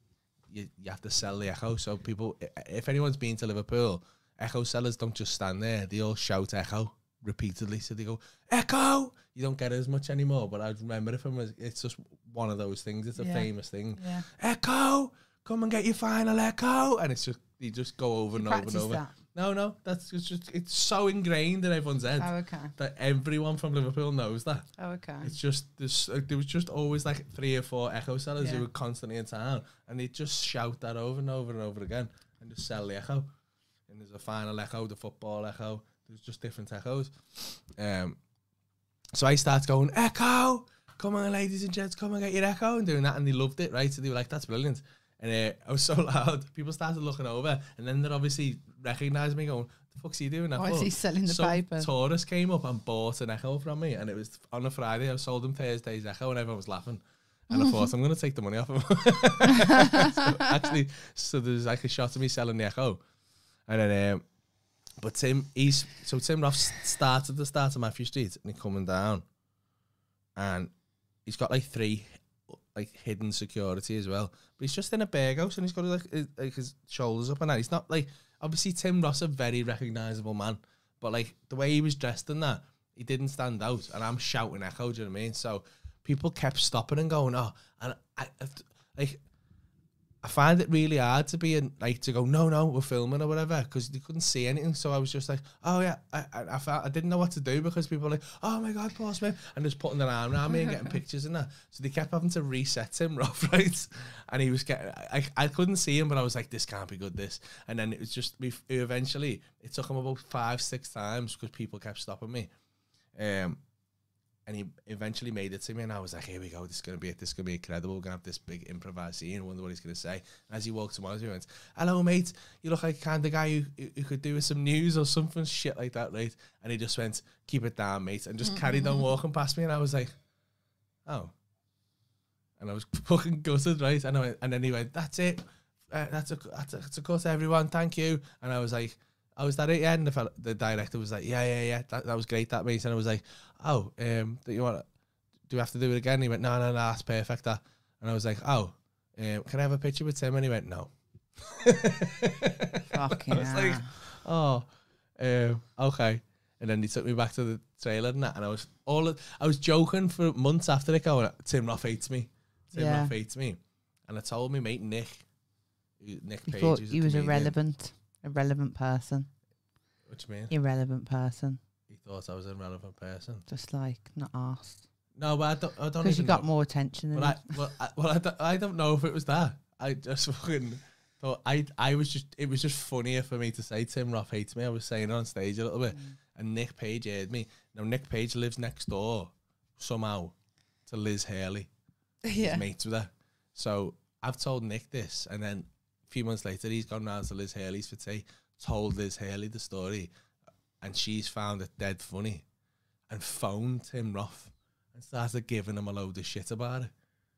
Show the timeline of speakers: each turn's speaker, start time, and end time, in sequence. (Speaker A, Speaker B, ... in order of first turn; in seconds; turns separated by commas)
Speaker A: 0.5-24.7, Speaker B: 13.2-14.2, Speaker B: 18.3-19.1, Speaker B: 22.2-22.7, Speaker B: 24.8-25.3, Speaker A: 25.2-33.3, Speaker B: 28.4-28.6, Speaker A: 33.9-38.2, Speaker A: 39.1-63.0, Speaker B: 50.5-51.9, Speaker B: 57.5-57.8, Speaker B: 59.5-60.5, Speaker A: 63.7-64.2, Speaker A: 65.0-69.2, Speaker A: 70.3-70.7, Speaker A: 71.2-89.2, Speaker A: 90.2-112.5, Speaker A: 113.1-113.6, Speaker A: 114.5-130.1, Speaker A: 131.0-131.3, Speaker A: 132.6-144.8, Speaker A: 145.5-165.2, Speaker B: 152.9-154.0, Speaker B: 162.7-163.1, Speaker A: 166.0-167.6, Speaker B: 166.4-169.3, Speaker A: 170.1-170.5, Speaker B: 170.5-171.6, Speaker A: 171.9-173.4, Speaker B: 173.5-174.8, Speaker A: 175.2-176.5, Speaker B: 176.0-177.5, Speaker A: 177.1-190.3, Speaker A: 190.8-191.7, Speaker B: 192.2-192.6, Speaker A: 192.3-200.1, Speaker A: 200.8-202.4, Speaker A: 203.1-206.9